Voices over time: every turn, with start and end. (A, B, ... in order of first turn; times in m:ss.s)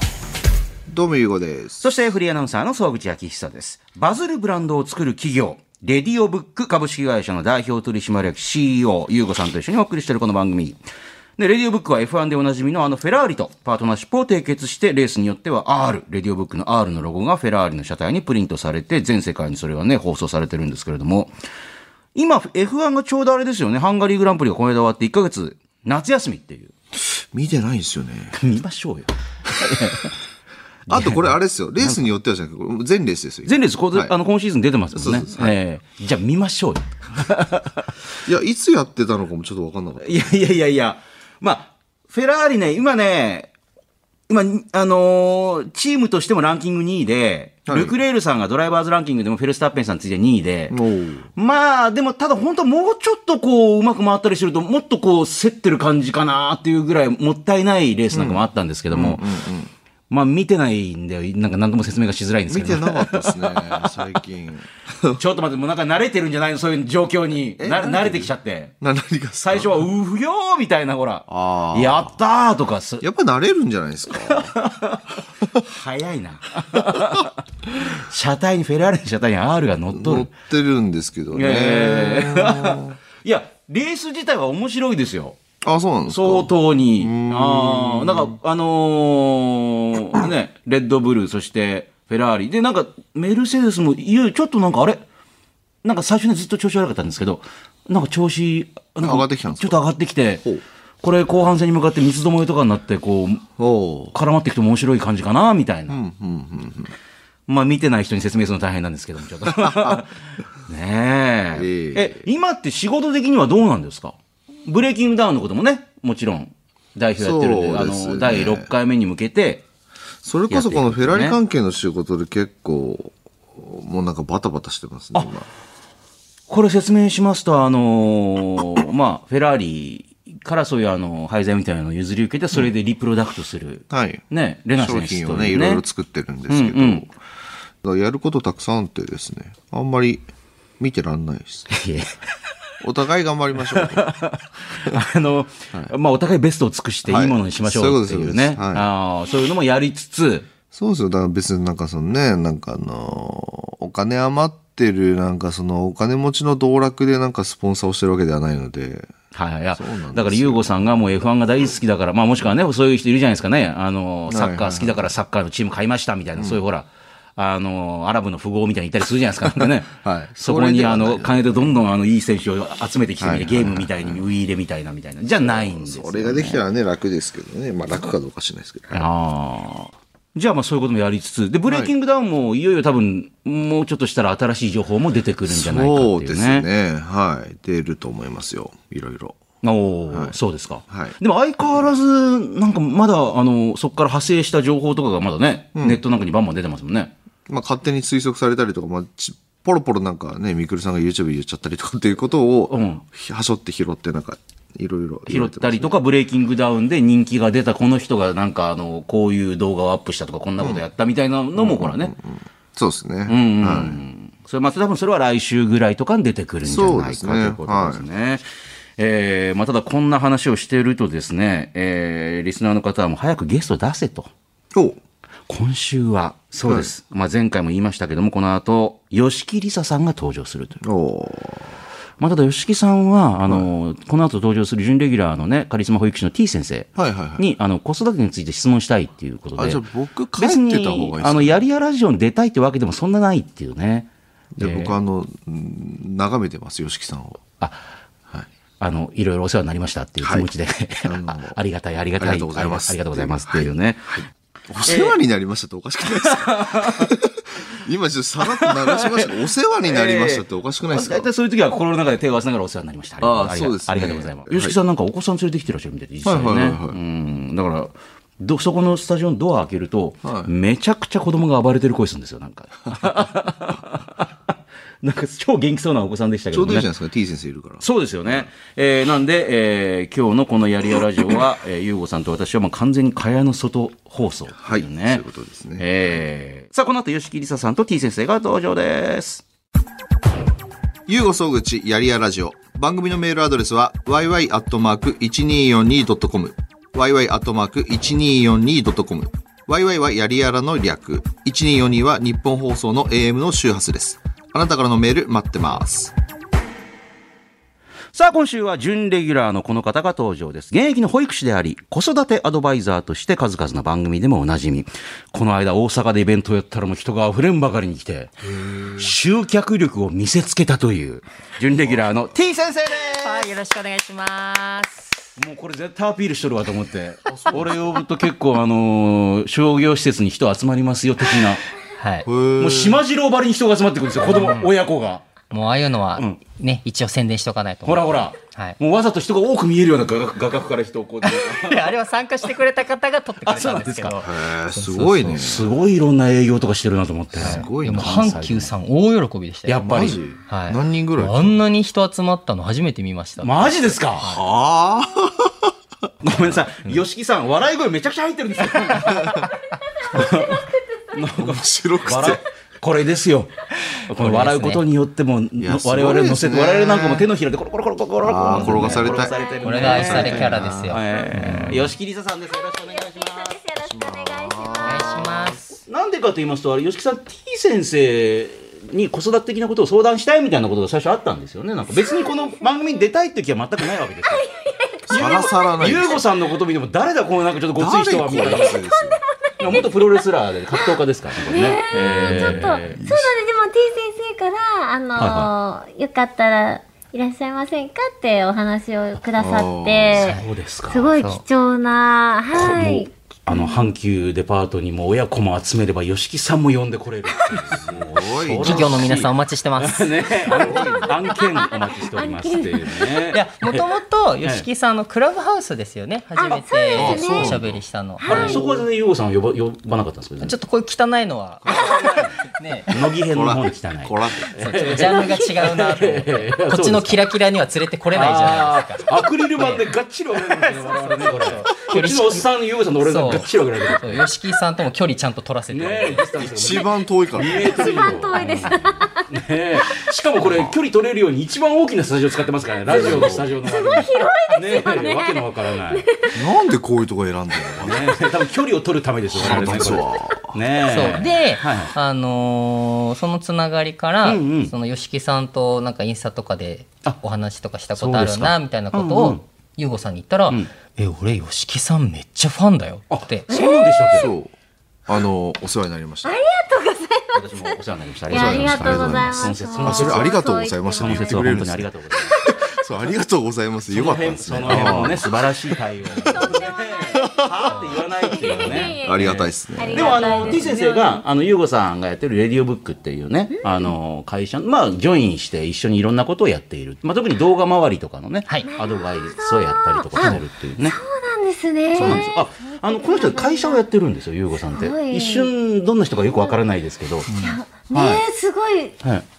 0:00.9-0:01.8 A
0:01.8-0:10.8 B
0:11.4-0:21.3 B
0:22.1-0:26.7 B
0:26.9-0:28.4 A
0:28.3-0:30.1 B
0:30.9-0:34.1 A
0:30.9-0:32.0 B
0:33.4-0:37.9 B
0:34.9-0:35.5 A
0:38.2-0:40.2 A
0:40.0-0:43.5 B
0:44.3-0:50.8 B
0:47.7-0:47.9 A
0:50.7-0:51.3 A
0:51.4-0:59.3 B
0:58.1-0:59.7 A
1:00.1-1:04.0 B
1:02.5-1:05.2 A
1:05.2-1:08.7 B
1:07.6-1:09.9 A
1:09.4-1:13.0 B
1:11.3-1:12.1 A
1:13.0-1:14.5 A
1:14.1-1:15.0 B
1:15.6-1:20.3 B
1:16.7-1:17.2 A
1:19.9-1:23.0 A
1:21.3-1:25.4 B
1:25.6-1:28.4 A
1:26.1-1:35.0 B
1:35.8-1:40.4 B
1:39.0-1:39.8 A
1:41.0-1:43.5 B
1:43.6-1:44.1 A
1:44.1-1:46.0 B
1:45.9-1:46.9 A
1:47.5-1:59.6 B
1:49.5-1:50.0 A
1:51.5-1:52.2 A
1:57.2-1:58.7 A
2:00.2-2:05.5 A
2:00.5-2:01.4 B
2:06.5-2:15.8 B
2:13.9-2:14.2 A
2:14.8-2:17.1 A
2:16.5-2:17.0 B
2:17.8-2:20.3 A
2:20.8-2:21.7 A
2:21.7-2:22.1 B
2:22.8-2:25.0 A
2:23.6-2:30.5 B
2:27.1-2:28.9 A
2:30.7-2:39.1 A
2:39.3-2:56.6 B
2:39.8-2:41.0 A
2:44.3-2:45.1 A
2:46.4-2:46.6 A
2:49.4-2:51.7 A
2:53.2-2:54.2 A
2:55.4-2:59.1 A
2:58.9-3:06.6 B
3:05.5-3:09.4 A
3:09.6-3:17.1 B
3:10.9-3:11.1 A
3:15.8-3:16.0 A
3:17.5-3:26.0 A
3:22.7-3:23.0 B
3:25.3-3:32.1 B
3:30.6-3:30.8 A
3:31.6-3:34.0 A
3:33.3-3:38.4 B
3:36.6-3:38.0 A
3:39.0-3:44.3 B
3:45.5-3:50.8 B
3:50.8-3:51.8 A
3:52.2-3:59.8 B
3:57.0-3:57.4 A
3:59.6-4:01.6 A
4:00.4-4:04.9 B
4:04.6-4:07.4 A
4:08.8-4:14.3 B
4:10.2-4:10.5 A
4:11.0-4:11.6 A
4:12.2-4:13.7 A
4:14.7-4:21.3 A
4:14.8-4:15.2 B
4:16.1-4:17.1 B
4:18.4-4:36.9 B
4:23.2-4:24.7 A
4:26.2-4:27.0 A
4:30.2-4:30.5 A
4:36.5-4:38.5 A
4:37.8-4:45.2 B
4:44.6-4:46.2 A
4:45.8-4:49.4 B
4:51.1-5:06.1 A
5:08.1-5:18.4 B
5:18.4-5:19.1 A
5:19.0-5:23.5 B
5:23.1-5:25.3 C
5:25.4-5:31.6 B
5:27.2-5:27.8 A
5:32.0-5:32.3 C
5:32.2-5:33.0 A
5:32.6-5:35.2 B
5:34.2-5:34.7 C
5:35.5-5:38.8 C
5:36.2-5:36.4 B
5:37.8-5:41.9 B
5:41.2-5:45.4 C
5:43.4-5:44.2 B
5:44.2-5:45.7 A
5:45.2-5:48.7 B
5:47.3-5:48.4 A
5:47.4-5:54.4 C
5:49.6-5:50.2 B
5:49.8-5:51.6 A
5:53.4-5:54.3 B
5:54.2-5:56.5 A
5:56.2-5:59.5 B
5:59.0-5:59.5 A
6:00.1-6:03.5 B
6:00.2-6:01.1 D
6:01.3-6:02.4 A
6:03.8-6:04.8 C
6:04.0-6:13.5 B
6:05.6-6:07.2 A
6:08.2-6:11.9 A
6:09.0-6:10.3 D
6:09.6-6:11.9 C
6:11.0-6:11.4 D
6:12.5-6:15.4 D
6:13.9-6:15.6 A
6:14.8-6:15.8 C
6:15.8-6:24.4 B
6:21.9-6:23.0 D
6:24.2-6:25.7 D
6:25.1-6:26.2 A
6:25.1-6:28.8 B
6:27.8-6:29.2 A
6:28.3-6:43.9 D
6:29.6-6:33.0 B
6:32.1-6:33.3 A
6:35.2-6:35.5 B
6:39.4-6:40.2 A
6:40.1-6:41.1 B
6:40.2-6:40.4 C
6:41.2-6:41.4 C
6:42.5-6:53.9 B
6:47.7-6:49.2 A
6:48.6-6:50.3 C
6:50.5-6:51.4 A
6:50.5-6:53.2 D
6:53.3-6:58.6 C
6:56.4-6:57.6 D
6:56.9-6:57.8 A
6:58.2-6:58.8 D
6:58.2-7:00.6 B
7:00.4-7:03.1 C
7:01.7-7:07.2 B
7:03.3-7:04.5 A
7:04.6-7:09.9 C
7:05.0-7:05.6 D
7:08.1-7:14.3 B
7:10.5-7:12.5 C
7:13.0-7:16.3 C
7:15.7-7:26.1 B
7:16.4-7:18.0 A
7:17.4-7:19.2 D
7:18.4-7:18.9 C
7:20.4-7:20.7 A
7:22.9-7:23.5 A
7:23.7-7:26.4 D
7:26.3-7:28.2 A
7:27.8-7:31.9 B
7:29.3-7:30.5 A
7:30.9-7:43.4 C
7:34.2-7:34.7 B
7:37.9-7:39.4 B
7:43.1-7:44.3 B
7:43.5-7:44.3 D
7:44.1-7:44.5 A
7:45.1-7:46.4 A
7:46.2-7:51.6 D
7:47.3-7:50.4 B
7:48.3-8:00.6 A
7:50.9-7:52.4 B
7:52.2-7:52.7 D
7:53.9-8:11.0 B
7:54.7-7:55.0 C
7:56.2-8:01.2 D
8:03.5-8:03.9 D
8:08.6-8:13.8 D
8:10.2-8:10.4 C
8:11.9-8:17.3 B
8:14.6-8:15.5 D
8:17.3-8:17.6 C
8:17.4-8:19.0 D
8:17.9-8:18.2 B